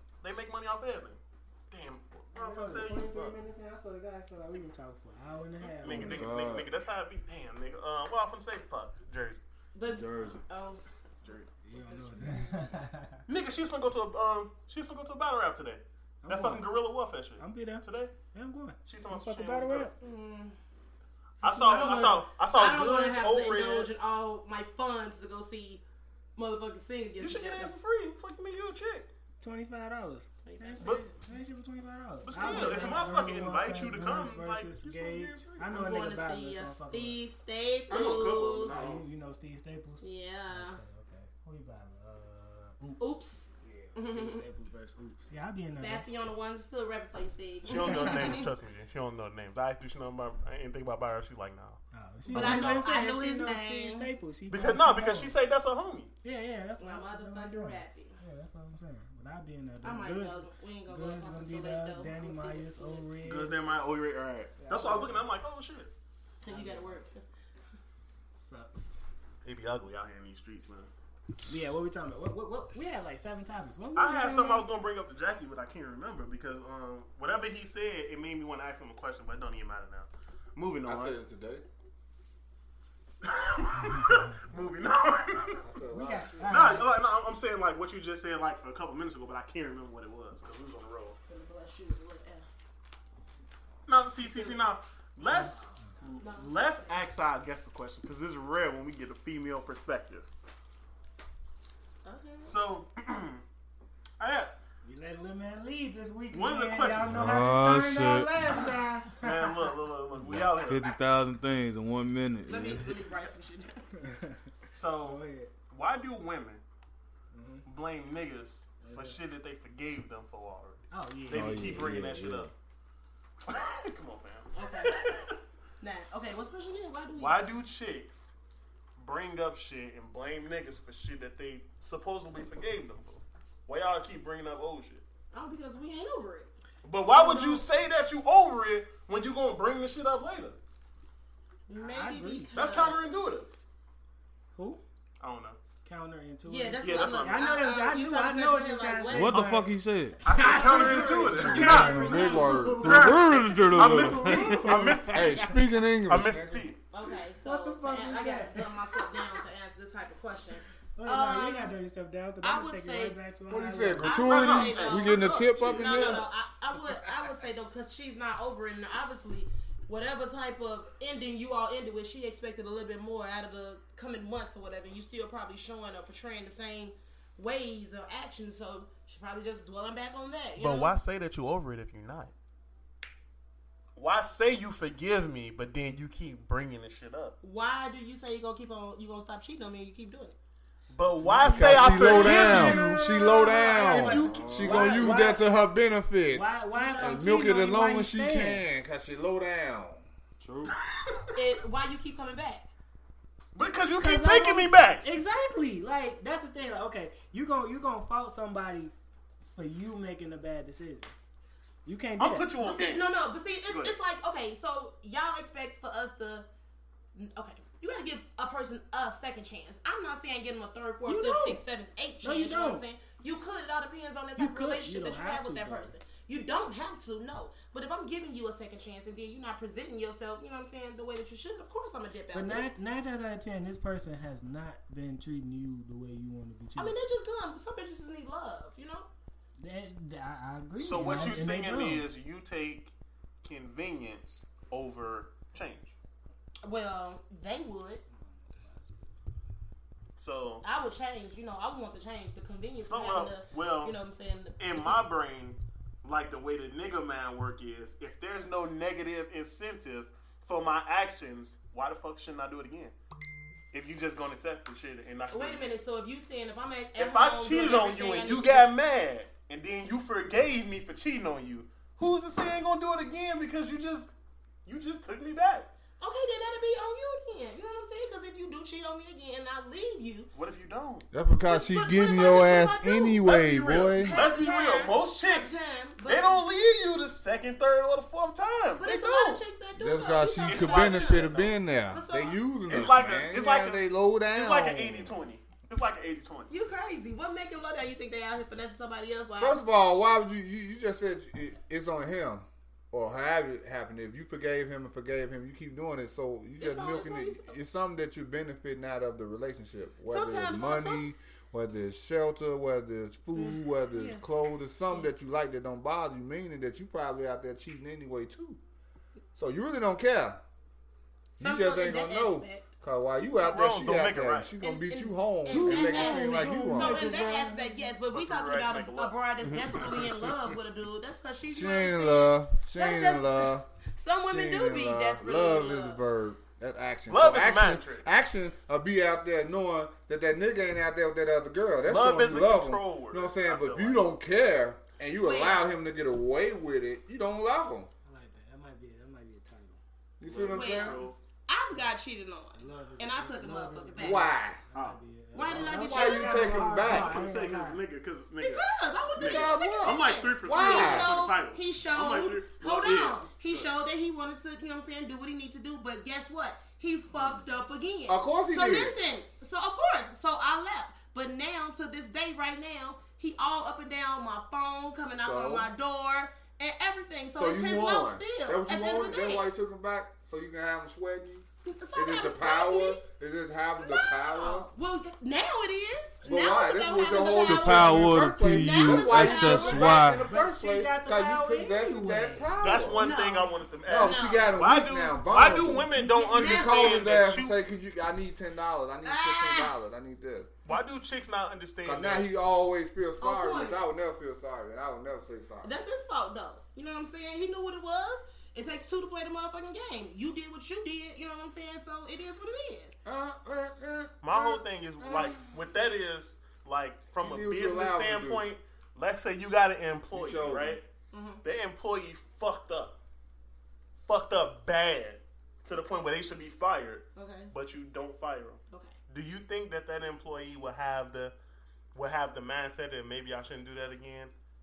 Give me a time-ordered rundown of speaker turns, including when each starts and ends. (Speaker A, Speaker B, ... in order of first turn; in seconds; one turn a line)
Speaker A: 0.2-3.3
Speaker B: 2.3-6.3
Speaker A: 5.6-9.4
Speaker C: 5.8-6.7
Speaker D: 9.7-10.8
Speaker C: 9.8-10.4
Speaker A: 11.2-11.5
Speaker B: 11.6-13.2
Speaker D: 11.8-12.7
Speaker A: 13.3-18.1
Speaker B: 16.2-16.7
Speaker B: 17.4-20.0
Speaker A: 18.9-19.9
Speaker D: 20.0-20.6
Speaker B: 21.4-22.2
Speaker A: 21.4-23.9
Speaker D: 21.6-25.8
Speaker D: 26.4-27.7
Speaker A: 27.2-29.1
Speaker B: 29.4-37.2
Speaker D: 30.4-31.1
Speaker A: 30.8-31.1
Speaker A: 32.3-35.7
Speaker D: 32.4-33.3
Speaker D: 35.7-39.0
Speaker A: 37.9-39.0
Speaker B: 38.6-46.0
Speaker D: 40.0-40.8
Speaker D: 43.0-44.4
Speaker D: 45.8-48.5
Speaker A: 47.7-51.8
Speaker B: 51.9-55.3
Speaker D: 52.3-54.1
Speaker A: 52.3-52.8
Speaker A: 54.5-56.1
Speaker B: 56.2-63.5
Speaker D: 56.8-58.2
Speaker D: 59.8-63.0
Speaker A: 63.2-65.9
Speaker B: 64.6-65.2
Speaker D: 66.4-67.2
Speaker B: 66.4-67.0
Speaker B: 68.3-69.0
Speaker A: 69.4-70.9
Speaker B: 71.5-74.7
Speaker A: 74.0-81.2
Speaker E: 80.8-81.6
Speaker A: 83.2-85.6
Speaker E: 85.5-86.7
Speaker B: 85.9-86.9
Speaker A: 86.5-91.2
Speaker D: 91.3-92.5
Speaker A: 93.9-100.2
Speaker D: 94.2-94.6
Speaker B: 95.3-95.8
Speaker D: 96.2-97.0
Speaker D: 102.0-102.5
Speaker A: 102.4-103.4
Speaker A: 104.2-104.5
Speaker B: 104.8-109.7
Speaker A: 106.3-107.2
Speaker C: 107.1-108.3
Speaker A: 109.2-110.9
Speaker C: 110.2-113.0
Speaker D: 112.5-113.8
Speaker B: 114.0-114.4
Speaker A: 114.7-116.6
Speaker B: 115.0-115.5
Speaker B: 117.3-117.6
Speaker A: 117.7-122.5
Speaker B: 118.8-119.2
Speaker B: 120.9-121.7
Speaker C: 121.3-122.5
Speaker A: 123.4-125.4
Speaker D: 124.5-125.1
Speaker D: 125.8-127.5
Speaker A: 127.1-128.3
Speaker A: 129.0-135.0
Speaker D: 135.3-137.6
Speaker A: 136.8-140.6
Speaker D: 141.7-143.5
Speaker B: 141.8-142.9
Speaker A: 142.5-143.5
Speaker B: 144.6-144.8
Speaker A: 145.2-145.6
Speaker B: 145.8-155.4
Speaker D: 146.4-149.6
Speaker A: 146.8-147.5
Speaker C: 149.1-150.2
Speaker D: 150.2-152.8
Speaker A: 150.2-156.8
Speaker E: 151.3-153.2
Speaker C: 152.8-155.3
Speaker E: 155.1-156.7
Speaker D: 156.9-161.7
Speaker B: 157.4-159.3
Speaker B: 160.9-164.2
Speaker D: 162.4-163.2
Speaker E: 163.5-166.3
Speaker D: 164.0-181.0
Speaker A: 164.2-166.2
Speaker A: 180.6-182.3
Speaker A: 183.9-187.4
Speaker D: 187.4-190.3
Speaker A: 190.9-192.9
Speaker B: 191.4-195.5
Speaker E: 191.4-196.4
Speaker A: 193.8-195.1
Speaker C: 194.2-195.0
Speaker B: 196.3-198.6
Speaker D: 196.8-197.2
Speaker E: 197.0-200.0
Speaker C: 200.4-200.7
Speaker D: 201.3-202.7
Speaker A: 203.5-205.0
Speaker B: 204.0-208.9
Speaker B: 209.5-211.1
Speaker B: 211.8-212.5
Speaker A: 212.2-213.1
Speaker D: 212.6-216.5
Speaker A: 213.7-213.9
Speaker D: 217.1-232.7
Speaker B: 221.0-221.6
Speaker B: 222.2-222.8
Speaker B: 224.4-225.9
Speaker B: 232.3-236.9
Speaker D: 236.8-239.1
Speaker B: 239.6-242.1
Speaker A: 240.8-245.9
Speaker D: 240.9-241.4
Speaker D: 246.6-248.0
Speaker B: 248.1-249.0
Speaker A: 250.2-250.6
Speaker D: 250.6-255.0
Speaker A: 252.8-253.9
Speaker A: 254.6-262.9
Speaker A: 263.7-265.7
Speaker D: 265.3-268.7
Speaker A: 266.9-274.1
Speaker A: 274.6-275.7
Speaker D: 276.0-280.3
Speaker A: 280.3-281.1
Speaker E: 281.1-284.2
Speaker D: 281.4-283.2
Speaker A: 283.2-289.4
Speaker D: 283.9-286.4
Speaker D: 288.8-291.3
Speaker E: 289.7-295.1
Speaker A: 290.4-291.6
Speaker D: 291.9-292.9
Speaker A: 292.7-296.5
Speaker D: 296.5-299.6
Speaker E: 299.4-318.6
Speaker D: 306.6-307.5
Speaker D: 310.1-311.0
Speaker D: 313.3-314.2
Speaker E: 319.3-320.4
Speaker D: 321.4-322.6
Speaker E: 321.4-327.1
Speaker A: 323.4-324.5
Speaker D: 324.6-336.0
Speaker B: 325.5-327.9
Speaker A: 328.1-330.4
Speaker E: 331.5-333.7
Speaker E: 334.2-347.9
Speaker A: 337.1-338.1
Speaker A: 341.8-344.2
Speaker D: 345.2-345.7
Speaker B: 348.1-349.8
Speaker E: 350.2-351.0
Speaker A: 350.2-351.1
Speaker D: 350.5-354.3
Speaker B: 352.6-357.8
Speaker E: 354.0-354.6
Speaker D: 355.3-356.7
Speaker E: 355.5-357.2
Speaker A: 356.8-363.7
Speaker D: 358.4-379.5
Speaker E: 359.1-361.1
Speaker E: 368.1-368.9
Speaker E: 375.1-375.7
Speaker E: 377.3-384.7
Speaker D: 381.6-383.0
Speaker D: 383.8-390.1
Speaker E: 386.2-393.0
Speaker C: 387.4-390.2
Speaker B: 389.7-392.5
Speaker A: 392.6-397.6
Speaker D: 393.0-394.5
Speaker E: 393.9-400.5
Speaker D: 395.9-397.2
Speaker D: 399.0-399.7
Speaker A: 400.6-402.3
Speaker E: 401.8-405.7
Speaker D: 403.2-403.8
Speaker D: 405.6-412.9
Speaker E: 413.0-415.5
Speaker A: 414.2-420.8
Speaker E: 417.2-418.4
Speaker E: 420.1-420.8
Speaker D: 421.1-421.4
Speaker A: 421.4-423.0
Speaker A: 424.0-431.3
Speaker D: 427.1-427.5
Speaker A: 431.9-434.3